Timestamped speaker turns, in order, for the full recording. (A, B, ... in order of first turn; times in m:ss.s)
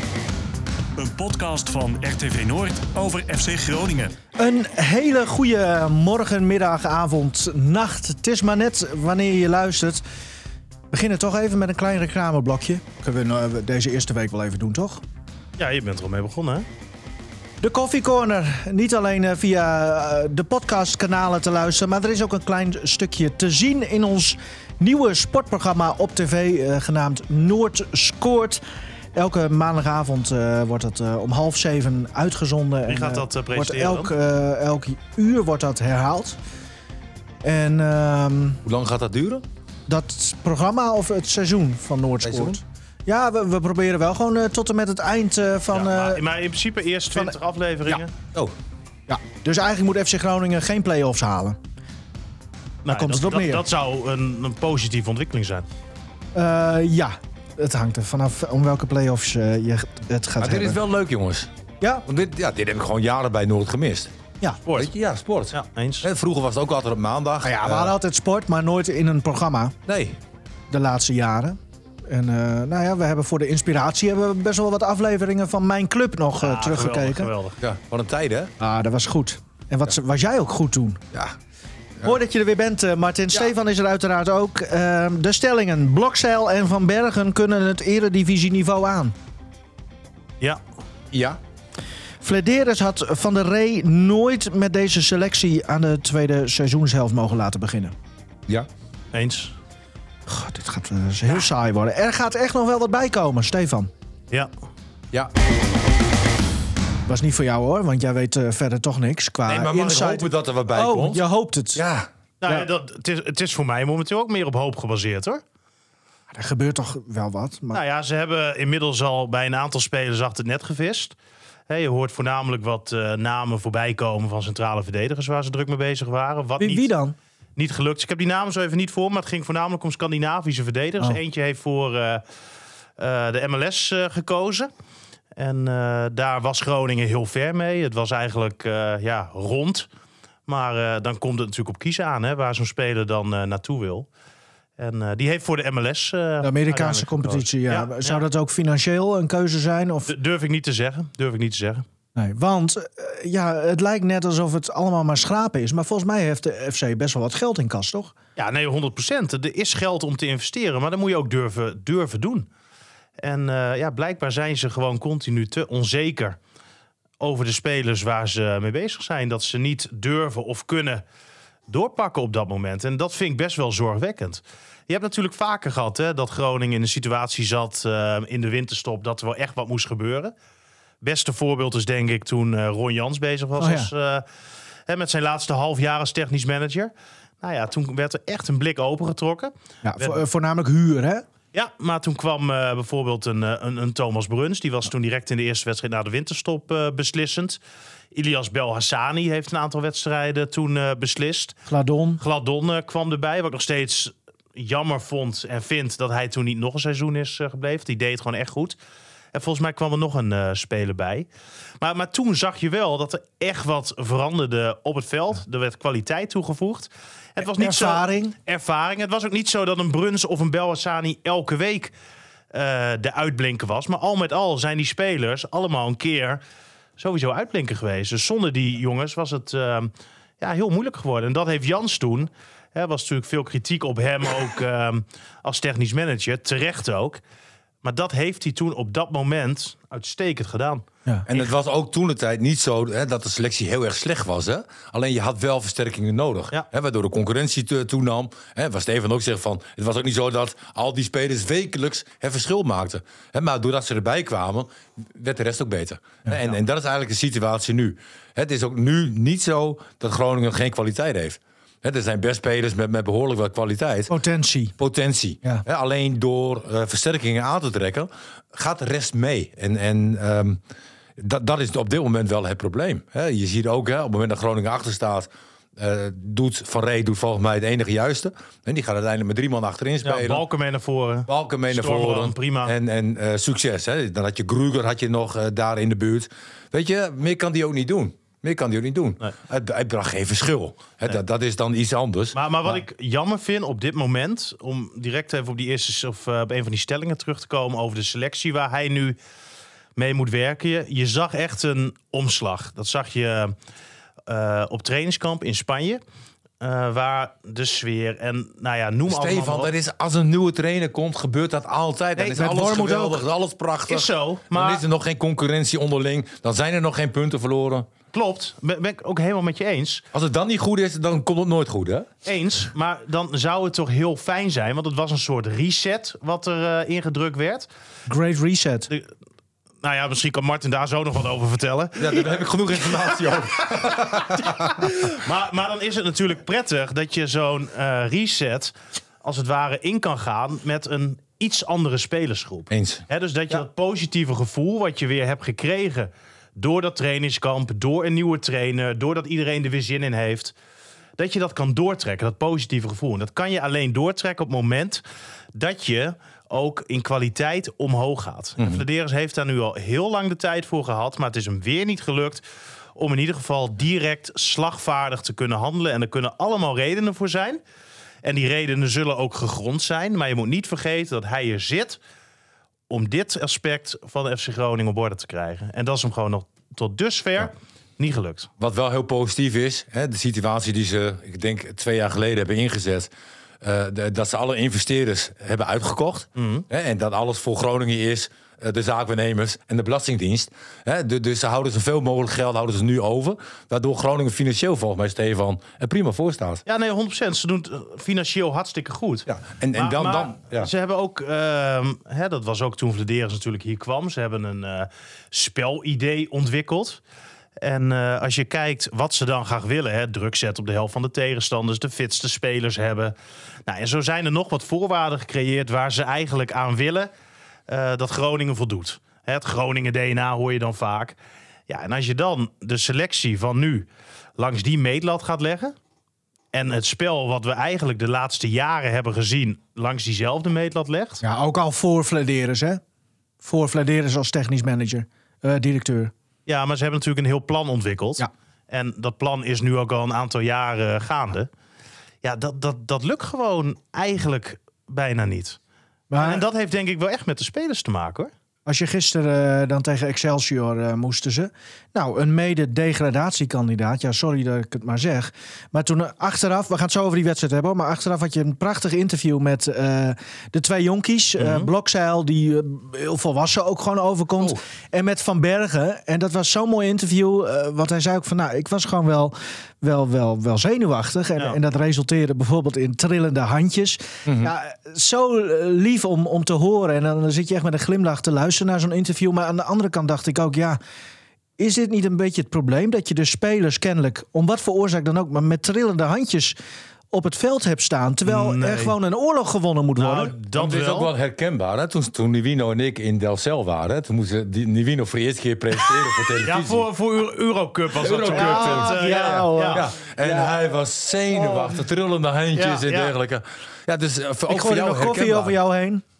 0:01.0-0:04.2 A
0:04.4-0:10.0 B
0:10.9-0:15.0 B
0:15.6-0:16.7 C
0:17.6-0:28.6 B
0:29.2-0:36.4 B
0:32.9-0:34.1 C
0:37.4-0:38.6 B
0:38.6-0:39.4 D
0:39.9-0:46.2 B
0:42.2-0:42.6 D
0:45.7-0:48.1 C
0:49.1-0:51.6 B
0:52.8-0:55.7 C
0:52.9-0:53.6 B
0:56.4-1:00.8 B
1:00.4-1:01.5 D
1:02.0-1:04.1 D
1:04.7-1:04.9 C
1:04.7-1:08.0 D
1:05.5-1:06.1 C
1:07.4-1:09.8 B
1:09.9-1:10.2 D
1:10.7-1:17.3 B
1:16.4-1:17.6 C
1:17.6-1:18.5 D
1:18.6-1:21.0 B
1:22.0-1:29.2 B
1:31.1-1:31.4 D
1:32.2-1:37.9 B
1:39.1-1:39.6 C
1:40.3-1:43.9 B
1:47.1-1:51.8 B
1:49.5-1:51.2 D
1:51.8-1:52.1 D
1:52.4-1:55.4 C
1:56.3-1:57.8 B
1:57.7-2:01.2 C
2:01.7-2:06.9 C
2:06.6-2:07.2 B
2:07.6-2:12.2 C
2:13.0-2:14.7 C
2:15.4-2:19.9 C
2:20.5-2:24.1 C
2:24.8-2:28.2 C
2:26.4-2:30.1 B
2:30.1-2:31.8 C
2:32.2-2:38.1 B
2:38.4-2:42.5 C
2:43.2-2:46.4 C
2:47.2-2:51.0 C
2:51.7-3:00.3 C
3:01.0-3:04.2 C
3:03.6-3:03.9 B
3:04.9-3:10.2 C
3:09.8-3:11.2 B
3:11.5-3:17.6 C
3:18.1-3:21.6 C
3:21.7-3:22.2 B
3:22.2-3:28.8 C
3:29.3-3:31.3 C
3:31.8-3:41.9 C
3:37.5-3:38.4 B
3:42.5-3:46.4 C
3:47.0-3:57.2 C
3:57.8-4:01.5 C
4:01.3-4:24.1 D
4:24.1-4:24.7 B
4:24.8-4:30.6 D
4:31.2-4:40.4 D
4:40.0-4:42.7 C
4:41.3-4:52.8 D
4:52.3-4:59.2 C
5:00.0-5:03.6 C
5:04.3-5:06.0 C
5:06.6-5:09.7 C
5:09.1-5:17.9 D
5:12.2-5:13.2 B
5:13.9-5:14.8 C
5:18.1-5:20.0 C
5:20.1-5:22.1 D
5:22.2-5:27.7 C
5:28.1-5:28.9 B
5:29.8-5:32.3 C
5:32.0-5:34.9 D
5:34.8-5:50.5 C
5:42.7-5:43.6 D
5:51.2-5:55.0 C
5:55.6-6:02.4 C
5:58.6-5:58.8 D
6:03.0-6:07.6 C
6:08.2-6:12.0 C
6:12.9-6:18.5 C
6:18.6-6:23.1 D
6:23.6-6:36.6 D
6:26.4-6:26.6 C
6:36.7-6:47.0 C
6:39.3-6:40.7 D
6:47.6-6:53.2 C
6:53.7-6:57.1 C
6:57.7-7:01.2 C
7:01.7-7:05.8 C
7:06.5-7:11.2 C
7:11.2-7:12.8 B
7:13.4-7:16.1 B
7:16.5-7:21.5 C
7:22.2-7:25.6 C
7:26.1-7:26.4 B
7:26.2-7:28.3 C
7:28.7-8:00.8 B
7:41.4-7:41.7 C
7:54.3-7:54.5 D
8:01.6-8:06.6 B
8:07.1-8:10.4 B
8:08.3-8:08.9 C
8:10.0-8:11.1 C
8:10.6-8:16.9 D
8:16.4-8:19.8 C
8:18.0-8:25.6 D
8:18.2-8:20.6 B
8:21.3-8:21.8 B
8:22.6-8:23.1 C
8:24.5-8:26.0 B